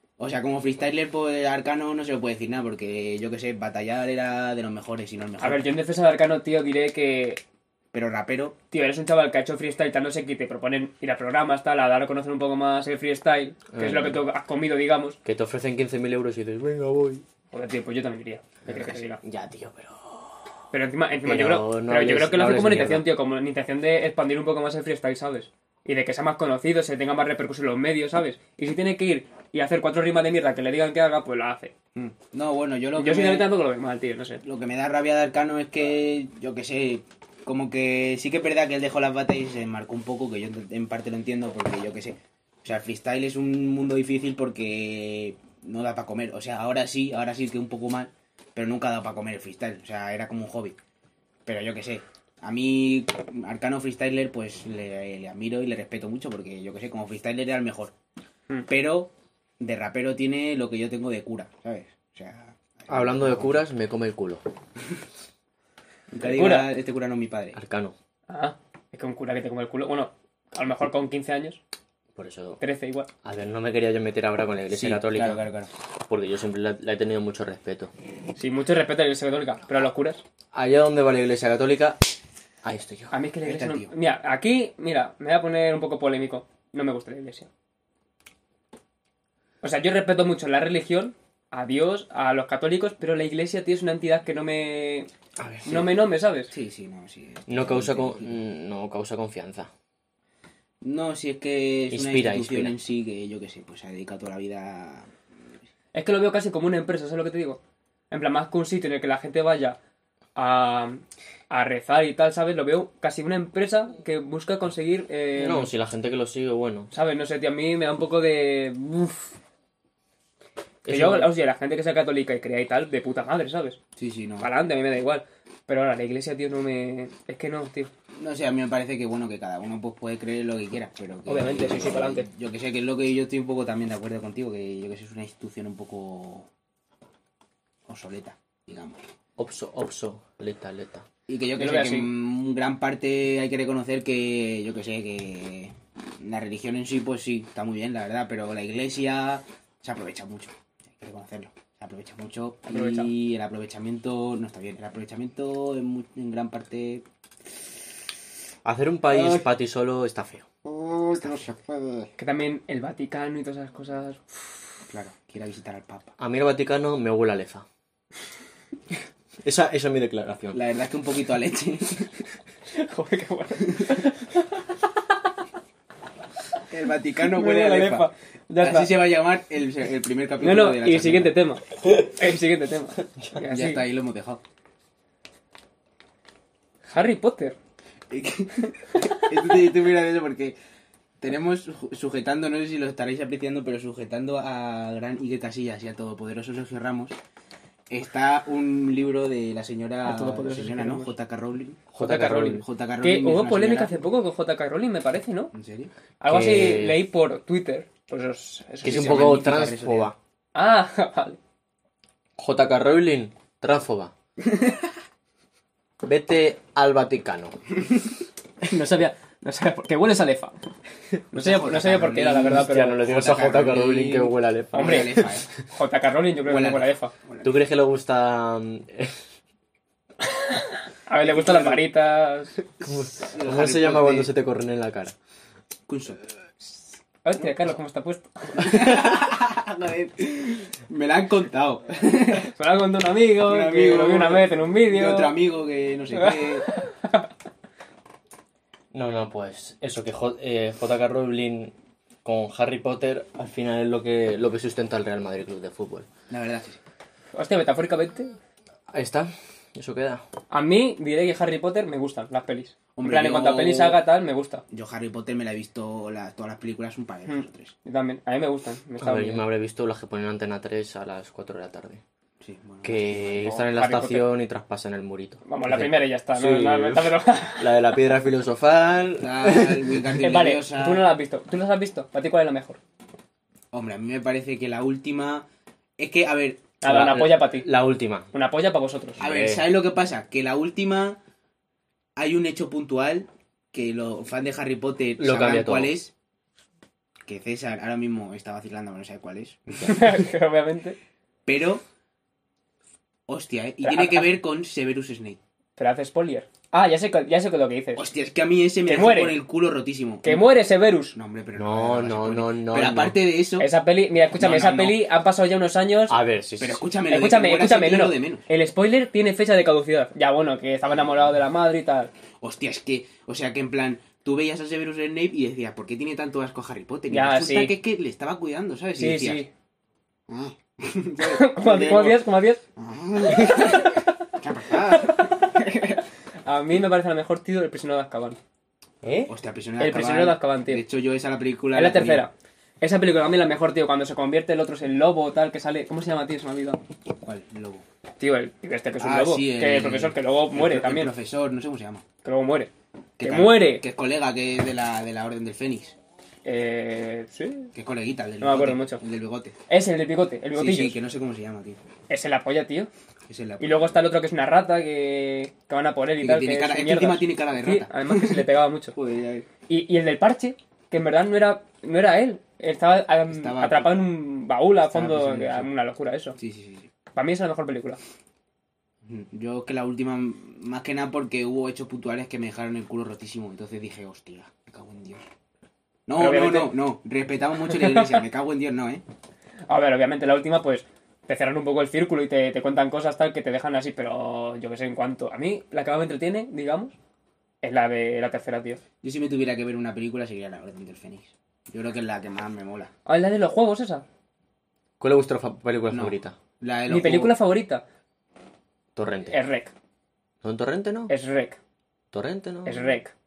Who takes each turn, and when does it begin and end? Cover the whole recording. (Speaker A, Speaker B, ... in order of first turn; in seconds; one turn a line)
Speaker A: 0.2-5.6
Speaker B: 5.4-7.4
Speaker A: 7.9-8.6
Speaker B: 8.7-15.2
Speaker C: 13.7-14.2
Speaker C: 15.2-17.2
Speaker B: 17.5-19.2
Speaker C: 18.7-20.5
Speaker B: 20.7-31.7
Speaker C: 21.2-23.1
Speaker A: 31.9-33.5
Speaker B: 33.0-34.4
Speaker A: 34.4-50.8
Speaker A: 51.5-57.9
Speaker A: 58.7-63.6
Speaker C: 62.9-64.4
Speaker A: 66.1-67.6
Speaker B: 66.2-66.7
Speaker C: 67.5-68.0
Speaker B: 68.3-71.6
Speaker C: 72.1-72.6
Speaker B: 72.6-73.1
Speaker C: 73.2-75.4
Speaker A: 74.7-75.7
Speaker C: 76.1-77.9
Speaker B: 78.4-80.2
Speaker C: 80.5-82.0
Speaker C: 82.6-83.2
Speaker B: 83.1-87.5
Speaker A: 83.4-83.9
Speaker B: 89.6-95.1
Speaker C: 95.4-95.6
Speaker A: 95.5-95.9
Speaker B: 95.6-96.5
Speaker A: 96.5-98.3
Speaker C: 97.5-99.7
Speaker A: 100.8-105.1
Speaker C: 101.9-102.8
Speaker B: 105.9-107.6
Speaker B: 108.1-109.8
Speaker B: 110.3-115.7
Speaker C: 115.3-116.9
Speaker B: 116.9-119.3
Speaker C: 120.8-121.3
Speaker B: 120.9-123.8
Speaker A: 124.0-124.5
Speaker B: 124.4-127.9
Speaker A: 128.2-136.5
Speaker B: 131.3-132.2
Speaker A: 137.9-139.0
Speaker C: 139.4-141.1
Speaker A: 141.3-157.0
Speaker B: 141.6-142.1
Speaker B: 152.7-153.1
Speaker C: 158.7-160.5
Speaker A: 159.1-159.4
Speaker A: 160.7-162.1
Speaker C: 161.2-161.4
Speaker B: 162.2-164.2
Speaker A: 164.9-166.2
Speaker C: 166.2-167.7
Speaker C: 169.4-170.6
Speaker A: 170.5-172.2
Speaker B: 172.7-174.4
Speaker A: 176.7-181.3
Speaker B: 177.2-179.0
Speaker B: 180.4-183.8
Speaker A: 183.5-184.4
Speaker B: 186.9-187.6
Speaker A: 188.1-190.6
Speaker B: 188.9-189.2
Speaker A: 191.2-197.2
Speaker A: 197.9-204.1
Speaker B: 200.0-201.2
Speaker C: 201.9-202.6
Speaker B: 202.0-205.5
Speaker A: 205.5-205.9
Speaker B: 206.2-209.5
Speaker C: 206.2-207.0
Speaker A: 208.8-210.1
Speaker C: 208.8-210.2
Speaker B: 210.5-211.4
Speaker C: 212.4-214.1
Speaker C: 216.0-217.6
Speaker B: 218.6-220.5
Speaker B: 221.3-223.1
Speaker A: 221.3-225.6
Speaker C: 222.4-225.2
Speaker B: 224.7-227.1
Speaker A: 226.4-227.6
Speaker C: 227.4-229.2
Speaker B: 230.2-232.6
Speaker A: 231.2-231.9
Speaker A: 232.8-234.3
Speaker C: 232.8-235.2
Speaker A: 235.9-236.2
Speaker B: 237.2-238.9
Speaker A: 238.6-242.5
Speaker B: 242.4-245.4
Speaker A: 243.4-246.8
Speaker B: 246.2-247.2
Speaker C: 248.9-256.1
Speaker A: 256.3-256.8
Speaker B: 257.4-258.3
Speaker C: 258.9-260.2
Speaker B: 260.5-264.6
Speaker A: 263.0-264.0
Speaker A: 264.7-267.7
Speaker B: 267.2-269.5
Speaker C: 269.0-272.0
Speaker A: 272.4-273.5
Speaker C: 272.8-279.9
Speaker B: 273.4-274.3
Speaker B: 275.5-278.0
Speaker A: 279.2-281.1
Speaker B: 280.0-282.8
Speaker A: 283.7-285.5
Speaker A: 286.0-286.7
Speaker B: 286.8-287.7
Speaker C: 286.8-288.3
Speaker B: 288.3-289.2
Speaker C: 289.2-289.6
Speaker A: 289.2-291.2
Speaker A: 292.2-296.1
Speaker C: 295.2-295.9
Speaker A: 297.2-300.2
Speaker B: 299.8-301.0
Speaker A: 301.5-301.9
Speaker A: 303.3-305.4
Speaker B: 303.8-304.3
Speaker B: 305.8-308.1
Speaker A: 308.0-310.4
Speaker B: 308.9-309.4
Speaker B: 310.2-311.1
Speaker A: 311.1-313.7
Speaker C: 311.6-313.2
Speaker B: 313.6-316.2
Speaker A: 314.4-315.1
Speaker C: 316.1-316.9
Speaker A: 316.6-318.4
Speaker B: 317.1-322.1
Speaker A: 322.4-329.4
Speaker B: 327.1-327.8
Speaker B: 329.0-329.5
Speaker A: 330.3-335.3
Speaker B: 331.2-332.6
Speaker B: 333.3-334.1
Speaker B: 334.9-338.4
Speaker C: 339.0-339.3
Speaker A: 339.3-342.3
Speaker B: 339.8-340.8
Speaker B: 341.8-346.8
Speaker A: 347.2-347.9
Speaker B: 348.2-351.1
Speaker A: 349.0-352.0
Speaker B: 352.2-352.7
Speaker A: 353.2-356.0
Speaker B: 353.2-353.8
Speaker B: 356.4-357.7
Speaker A: 357.8-359.6
Speaker B: 358.4-359.0
Speaker B: 359.7-361.0
Speaker A: 360.5-361.8
Speaker B: 362.1-362.9
Speaker A: 363.3-364.0
Speaker B: 363.6-368.9
Speaker A: 366.2-369.5
Speaker B: 369.7-376.4
Speaker A: 373.3-374.1
Speaker A: 374.9-375.7
Speaker A: 376.4-376.9
Speaker B: 377.1-378.0
Speaker A: 379.0-385.2
Speaker A: 386.1-389.0
Speaker B: 386.1-386.8
Speaker B: 387.7-388.2
Speaker B: 389.7-396.9
Speaker B: 397.6-398.8
Speaker A: 399.0-402.9
Speaker B: 403.1-404.1
Speaker C: 405.0-406.4
Speaker A: 405.9-407.3
Speaker B: 406.9-407.8
Speaker C: 408.9-409.4
Speaker B: 409.3-409.7
Speaker C: 410.4-411.1
Speaker B: 411.1-411.6
Speaker C: 412.1-412.9
Speaker B: 412.6-413.1